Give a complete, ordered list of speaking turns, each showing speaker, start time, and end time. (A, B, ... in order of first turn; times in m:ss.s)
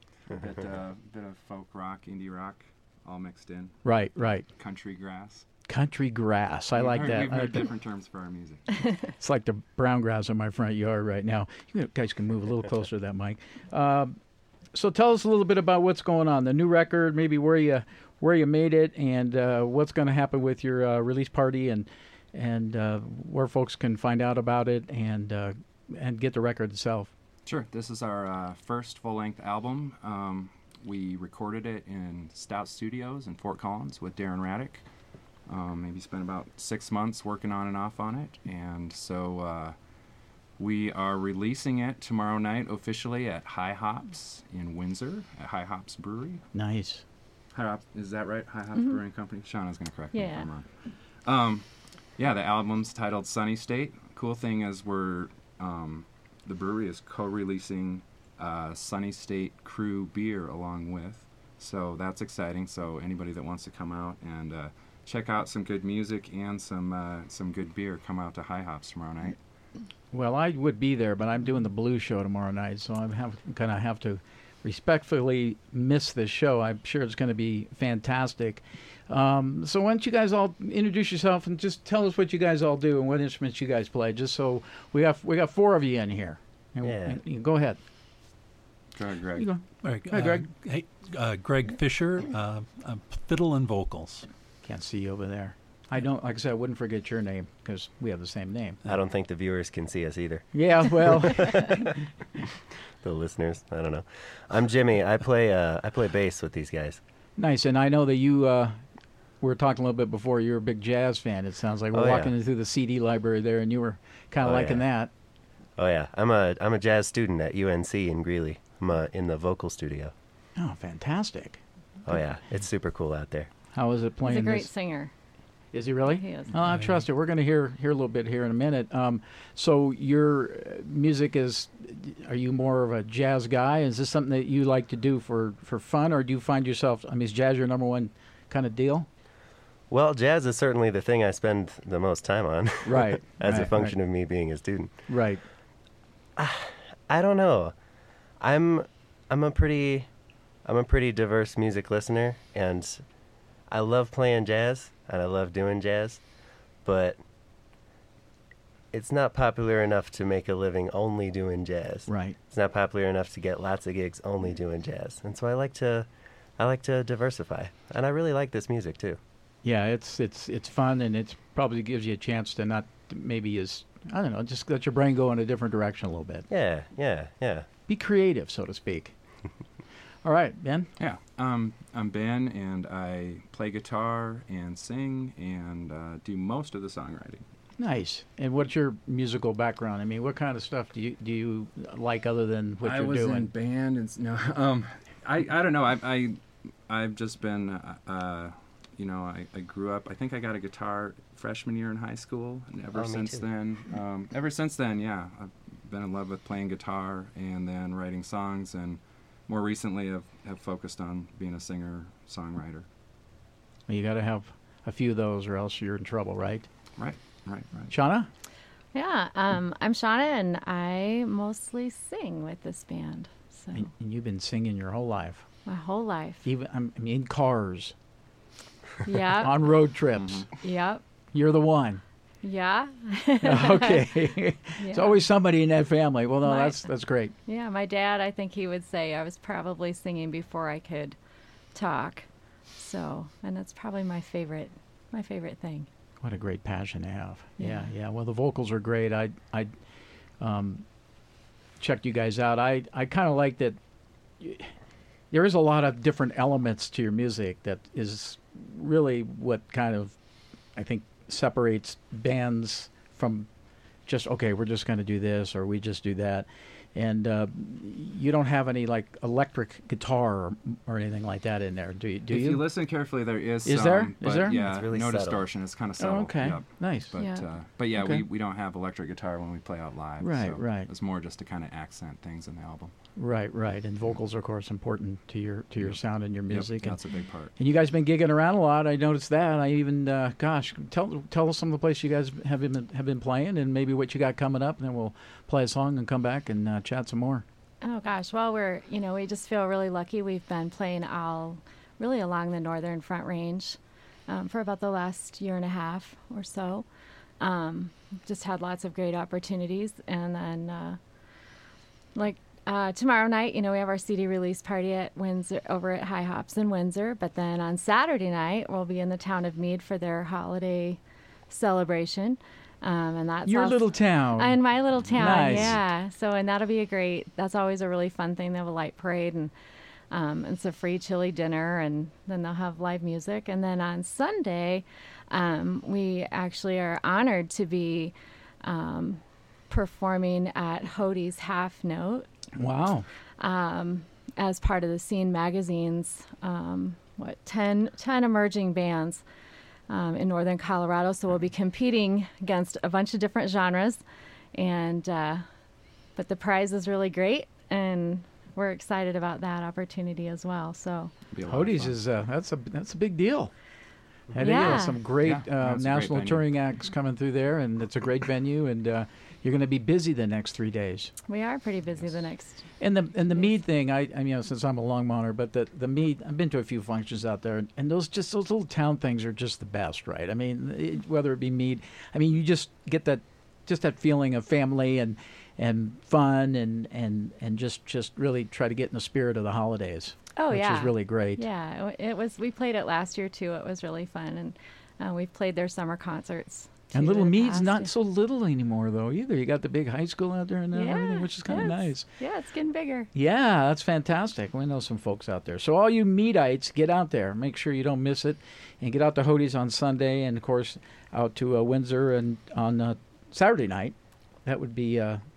0:00.3-0:03.8 A
0:03.8-0:04.5 B
0:04.6-0:05.5 A
0:05.7-0:07.7 B
0:06.7-0:08.9 A
0:09.1-0:14.2 B
0:14.7-0:27.1 B
0:27.5-0:34.8 A
0:35.5-0:39.8 A
0:40.6-0:46.4 A
0:46.5-0:47.0 B
0:47.5-0:50.7 A
0:50.1-0:50.5 C
0:51.2-0:51.6 A
0:52.2-1:09.4 A
1:10.1-1:27.8 B
1:26.8-1:27.2 D
1:29.0-1:29.5 A
1:29.4-1:30.5 B
1:29.8-1:34.3 E
1:34.6-1:38.8 B
1:38.9-1:41.9 D
1:40.5-1:41.9 B
1:43.0-1:47.0 D
1:47.4-1:48.8 B
1:49.4-1:55.1 B
1:51.9-1:52.3 D
1:54.4-1:54.8 D
1:55.8-2:00.1 D
2:00.6-2:01.6 B
2:02.1-2:03.5 D
2:03.7-2:04.7 B
2:04.2-2:05.1 C
2:05.7-2:19.1 B
2:06.1-2:06.5 C
2:06.7-2:07.0 E
2:19.9-2:25.1 D
2:22.8-2:24.0 B
2:25.1-2:25.4 B
2:26.4-2:27.8 D
2:28.4-2:30.1 D
2:30.6-2:33.1 D
2:33.7-2:36.2 D
2:36.8-2:37.2 D
2:38.9-2:49.2 D
2:42.1-2:42.4 B
2:49.6-2:56.5 B
2:56.5-2:57.7 D
2:57.9-2:59.1 B
3:00.2-3:00.9 B
3:01.0-3:07.4 A
3:07.8-3:13.5 B
3:12.8-3:32.9 A
3:22.9-3:23.4 D
3:33.9-3:36.7 B
3:37.0-3:37.9 A
3:37.9-3:38.3 B
3:38.9-3:43.9 C
3:43.7-3:45.5 B
3:45.7-3:46.4 C
3:46.4-3:48.0 B
3:49.0-3:49.5 C
3:49.1-3:50.5 B
3:50.2-3:50.5 A
3:50.6-3:51.0 C
3:51.3-3:52.0 B
3:52.4-3:54.1 C
3:53.4-3:57.3 B
3:54.8-3:55.2 C
3:56.4-3:56.9 C
3:57.5-4:01.2 C
4:01.7-4:05.9 C
4:06.2-4:09.7 B
4:07.6-4:07.9 C
4:10.4-4:10.8 B
4:11.8-4:13.8 B
4:14.4-4:14.7 B
4:15.3-4:20.2 B
4:20.8-4:23.5 B
4:24.1-4:32.7 B
4:32.3-4:42.9 A
4:33.6-4:34.6 B
4:34.5-4:35.4 D
4:36.0-4:37.1 B
4:37.2-4:37.4 C
4:38.0-4:38.2 B
4:40.2-4:40.9 B
4:43.2-4:47.0 B
4:46.5-4:47.5 A
4:47.6-4:57.4 B
4:57.8-5:06.9 C
5:07.4-5:11.0 C
5:12.2-5:29.5 C
5:23.4-5:24.6 B
5:25.2-5:25.8 B
5:30.1-5:42.3 C
5:42.6-5:43.1 B
5:43.4-5:49.2 C
5:49.9-5:54.0 C
5:54.5-5:55.4 C
5:56.2-6:01.1 C
6:01.3-6:02.0 A
6:01.5-6:03.5 B
6:04.4-6:11.1 B
6:04.4-6:05.0 C
6:05.2-6:06.5 A
6:11.3-6:12.7 C
6:12.8-6:31.4 B
6:30.4-6:37.9 C
6:36.9-6:42.1 B
6:40.7-6:43.1 C
6:43.1-6:55.2 B